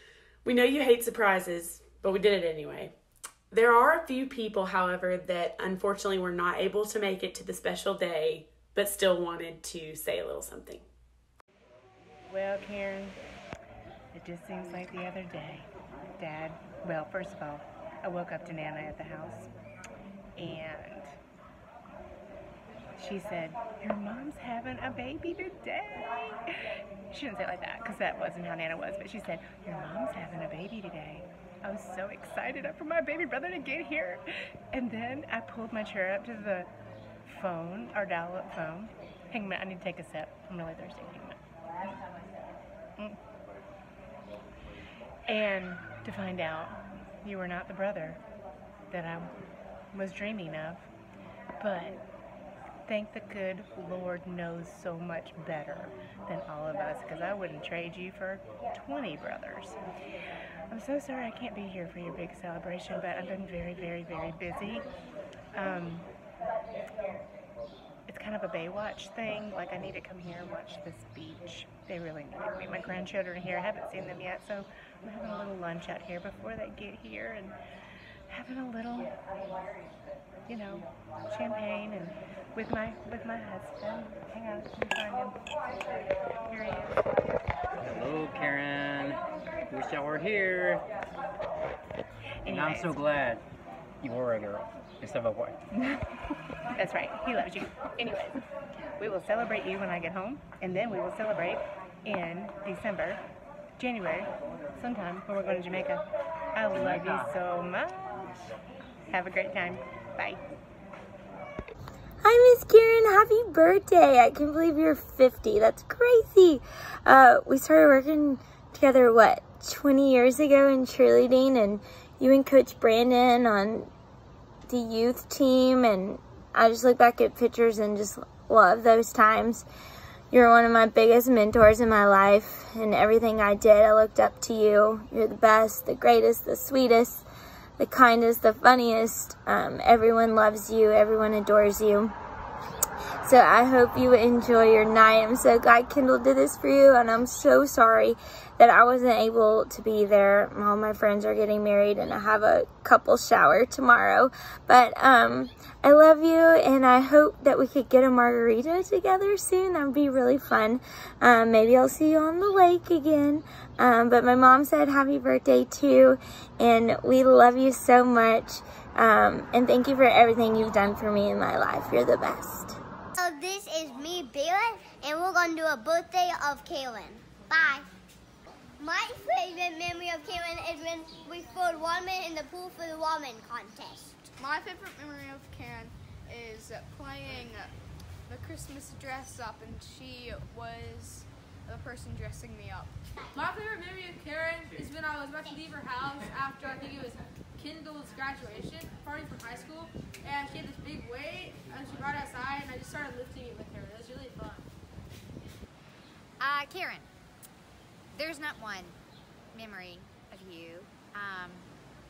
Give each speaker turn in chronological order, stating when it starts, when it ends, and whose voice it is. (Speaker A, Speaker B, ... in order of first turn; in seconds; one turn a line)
Speaker A: 0.5-2.9
Speaker A: 3.5-10.9
Speaker B: 12.3-13.2
Speaker B: 14.1-19.5
Speaker B: 20.4-21.1
Speaker B: 23.0-26.6
Speaker B: 27.1-36.7
Speaker B: 37.3-41.4
Speaker B: 45.3-48.2
Speaker B: 48.9-49.3
Speaker B: 49.9-50.9
Speaker B: 51.6-52.0
Speaker B: 52.9-59.8
Speaker B: 60.7-64.8
Speaker B: 65.5-66.1
Speaker B: 68.1-77.6
Speaker B: 78.3-79.1
Speaker B: 80.5-85.4
Speaker B: 86.5-87.0
Speaker C: 87.9-88.8
Speaker B: 92.4-93.1
Speaker C: 92.5-93.2
Speaker C: 95.0-95.3
Speaker B: 96.8-98.4
Speaker B: 99.0-103.2
Speaker B: 103.8-106.0
Speaker B: 106.5-108.3
Speaker B: 109.1-110.4
Speaker D: 112.2-123.9
Speaker D: 124.7-129.7
Speaker D: 130.3-137.3
Speaker D: 137.8-142.2
Speaker D: 143.2-172.8
Speaker E: 173.2-177.9
Speaker E: 178.8-184.3
Speaker F: 184.4-187.7
Speaker F: 188.3-192.9
Speaker G: 193.3-204.7
Speaker H: 206.4-207.1
Speaker H: 208.1-209.0
Speaker H: 209.5-211.7